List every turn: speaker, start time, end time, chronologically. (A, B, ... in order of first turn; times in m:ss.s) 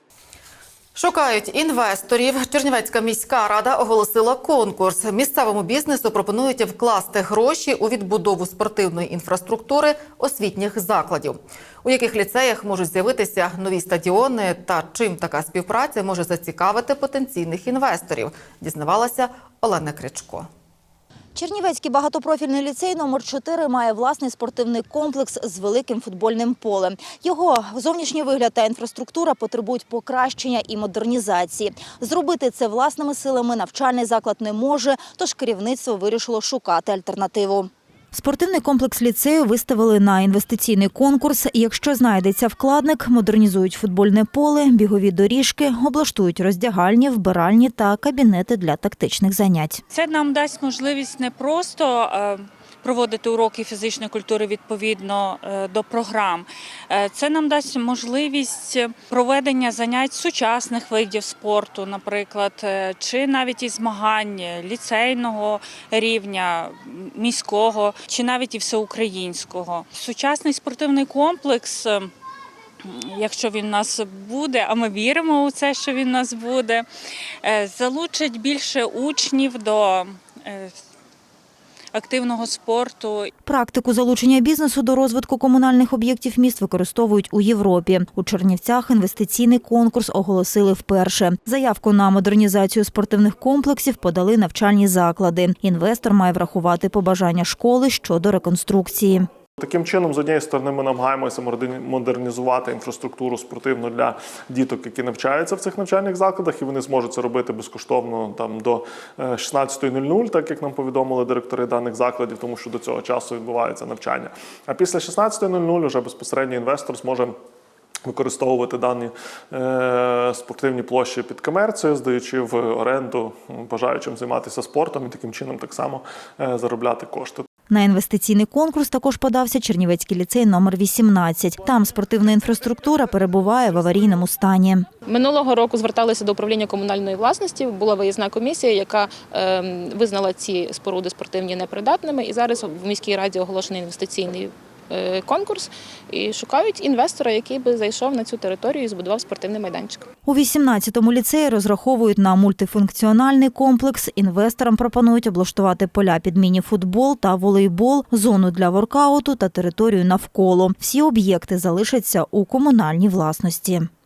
0:01.0-0:20.5 A
0:21.4-0:49.8 B
0:49.9-1:12.1 C
1:13.0-1:16.8 C
1:17.5-1:20.8 C
1:21.9-1:23.3 C
1:23.4-1:39.3 B
1:39.6-1:57.4 D
1:58.0-2:07.5 D
2:07.7-2:14.9 B
2:15.1-2:30.0 E
2:30.2-2:43.9 B